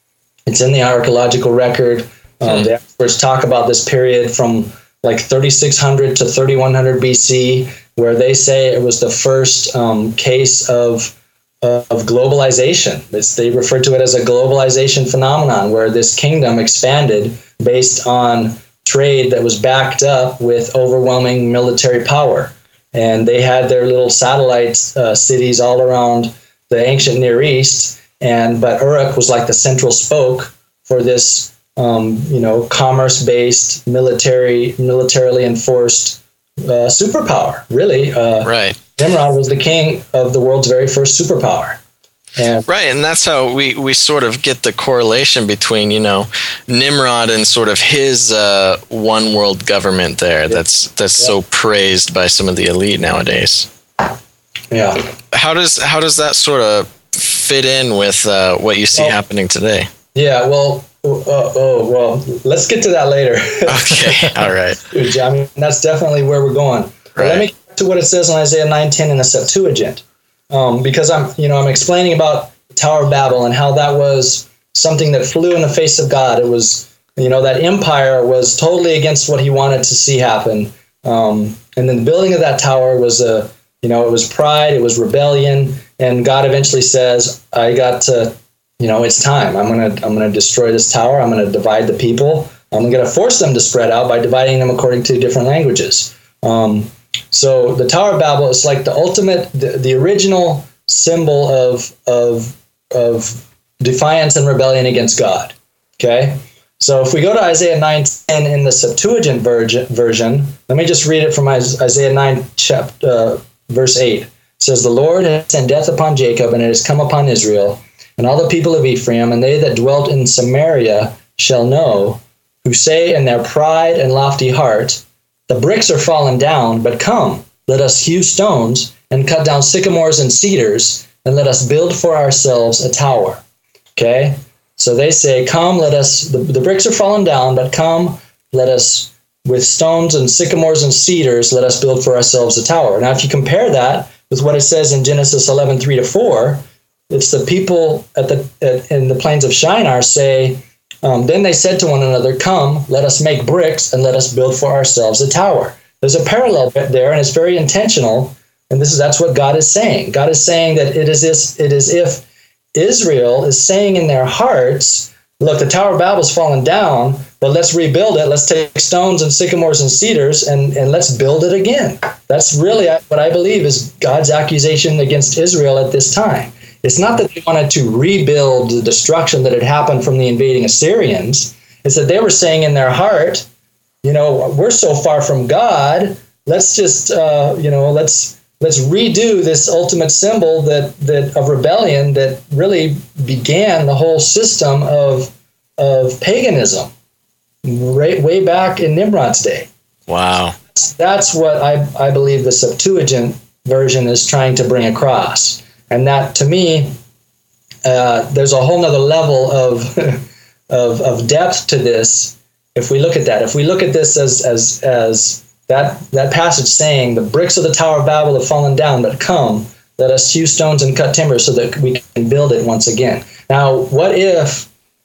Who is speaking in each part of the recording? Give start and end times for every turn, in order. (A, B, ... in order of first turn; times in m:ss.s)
0:00.5-0:41.8 A
0:38.4-0:38.8 B
0:42.4-0:42.7 A
0:42.7-0:53.7 B
0:54.7-0:55.0 A
0:55.3-0:59.9 B
1:00.2-1:04.4 A
1:03.7-1:04.8 B
1:04.9-2:13.4 A
1:07.2-1:07.5 B
2:14.0-3:03.5 A
3:04.0-3:16.9 A
3:17.6-3:19.7 A
3:20.1-3:20.6 B
3:20.7-3:26.9 A
3:27.8-3:44.7 A